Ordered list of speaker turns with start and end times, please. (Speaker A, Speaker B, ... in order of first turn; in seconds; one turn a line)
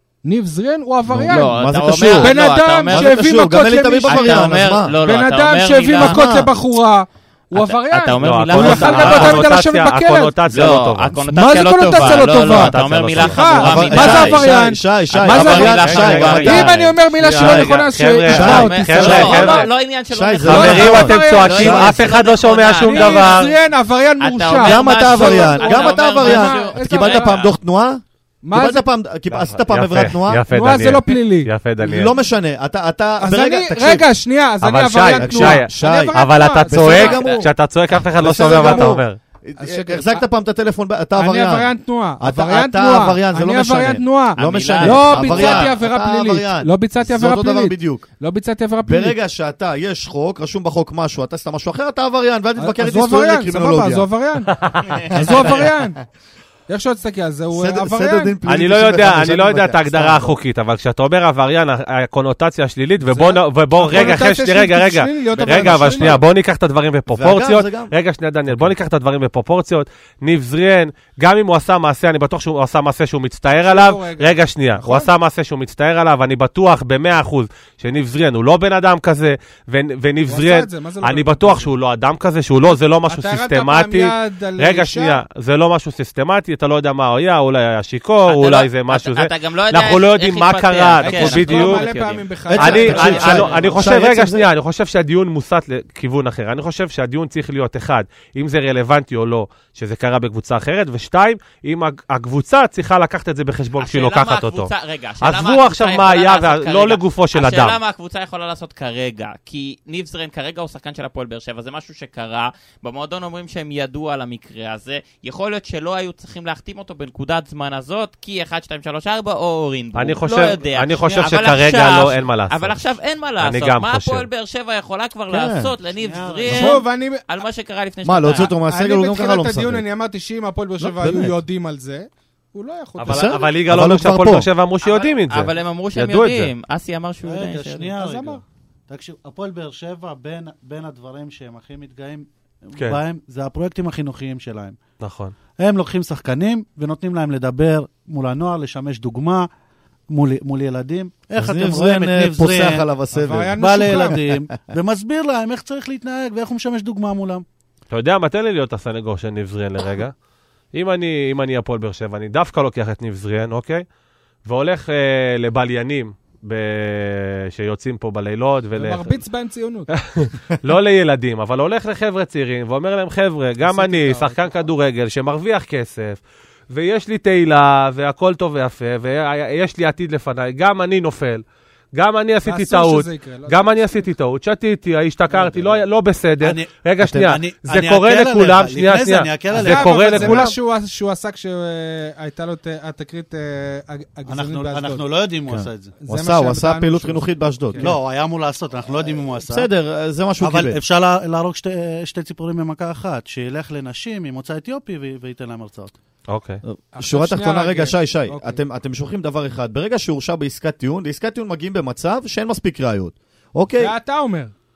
Speaker A: 0.2-10.3
Speaker B: 1.1-5.0
Speaker C: 1.2-3.1
Speaker C: 4.0-6.5
Speaker B: 5.9-6.5
Speaker C: 7.5-9.5
Speaker D: 8.2-11.1
Speaker C: 10.5-14.5
Speaker A: 11.3-19.6
Speaker D: 11.9-13.9
Speaker B: 13.6-22.0
Speaker C: 15.1-16.9
Speaker D: 15.8-16.6
Speaker D: 17.2-19.7
Speaker C: 18.3-23.4
Speaker D: 20.4-23.5
Speaker A: 20.5-21.9
Speaker A: 22.8-27.4
Speaker C: 24.2-27.5
Speaker B: 24.6-30.4
Speaker A: 28.4-28.9
Speaker D: 29.3-32.1
Speaker A: 30.5-31.5
Speaker B: 31.8-34.1
Speaker A: 33.2-37.5
Speaker D: 34.6-39.2
Speaker B: 35.1-37.5
Speaker B: 38.2-48.1
Speaker A: 38.4-39.0
Speaker A: 39.6-40.2
Speaker A: 41.2-49.2
Speaker C: 44.4-45.7
Speaker B: 48.8-54.1
Speaker A: 52.6-54.5
Speaker D: 54.6-55.0
Speaker B: 55.0-55.9
Speaker A: 55.1-56.0
Speaker A: 56.7-58.4
Speaker B: 57.5-60.4
Speaker D: 58.5-91.9
Speaker A: 63.0-66.2
Speaker B: 63.9-64.2
Speaker B: 65.3-66.2
Speaker B: 67.1-67.9
Speaker B: 68.5-68.7
Speaker A: 73.6-75.1
Speaker A: 80.3-81.7
Speaker A: 82.7-85.2
Speaker C: 88.2-93.9
Speaker A: 91.0-93.9
Speaker B: 92.5-94.5
Speaker D: 92.6-107.8
Speaker C: 103.8-128.5
Speaker D: 119.9-122.8
Speaker E: 121.0-121.3
Speaker D: 123.4-124.3
Speaker B: 125.3-125.7
Speaker E: 126.0-126.5
Speaker A: 126.4-127.2
Speaker B: 126.5-126.8
Speaker B: 128.0-129.8
Speaker A: 128.7-133.3
Speaker B: 130.8-131.3
Speaker D: 133.0-136.5
Speaker B: 133.1-134.5
Speaker C: 134.8-137.9
Speaker E: 137.2-144.8
Speaker A: 138.0-138.4
Speaker D: 145.0-145.3
Speaker E: 145.6-149.5
Speaker E: 150.1-152.9
Speaker B: 151.4-154.1
Speaker A: 153.1-154.2
Speaker E: 153.6-157.4
Speaker D: 157.9-160.1
Speaker D: 160.7-163.8
Speaker D: 164.4-169.2
Speaker A: 168.7-169.9
Speaker D: 169.9-181.4
Speaker A: 173.6-174.7
Speaker D: 181.9-190.5
Speaker A: 182.4-184.1
Speaker E: 185.3-185.8
Speaker E: 186.4-190.5
Speaker A: 189.5-195.1
Speaker E: 194.3-195.9
Speaker B: 195.5-198.0
Speaker A: 196.0-197.9
Speaker E: 197.8-199.7
Speaker B: 199.0-200.8
Speaker E: 200.4-205.9
Speaker D: 206.3-206.6
Speaker B: 206.6-213.9
Speaker A: 206.9-208.6
Speaker A: 213.8-214.5